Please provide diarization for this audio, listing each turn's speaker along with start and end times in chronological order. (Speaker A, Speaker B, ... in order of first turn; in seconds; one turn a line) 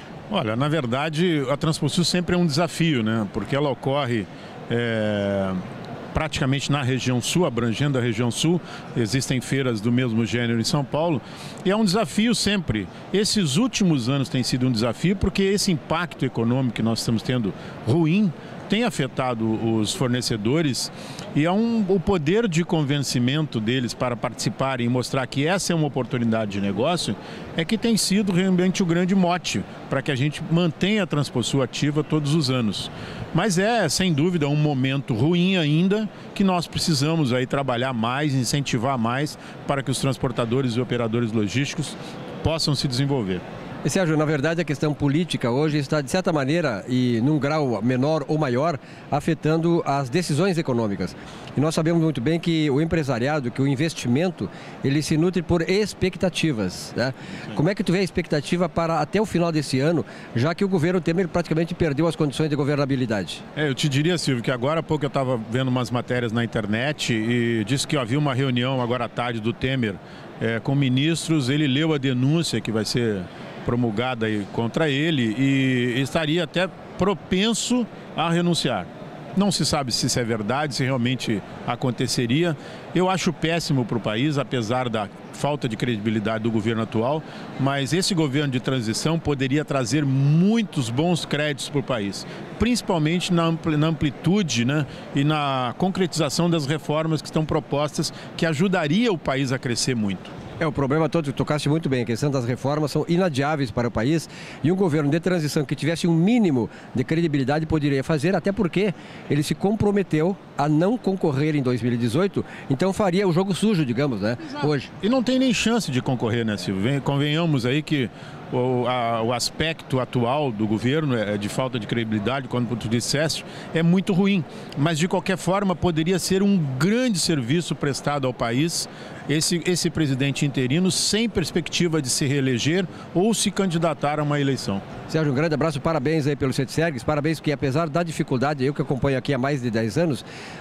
Speaker A: 0.3-5.6
Speaker A: 6.1-43.4
Speaker B: 43.8-63.4
Speaker A: 63.5-100.3
Speaker B: 100.6-114.9
Speaker A: 114.6-134.8
Speaker B: 135.1-140.2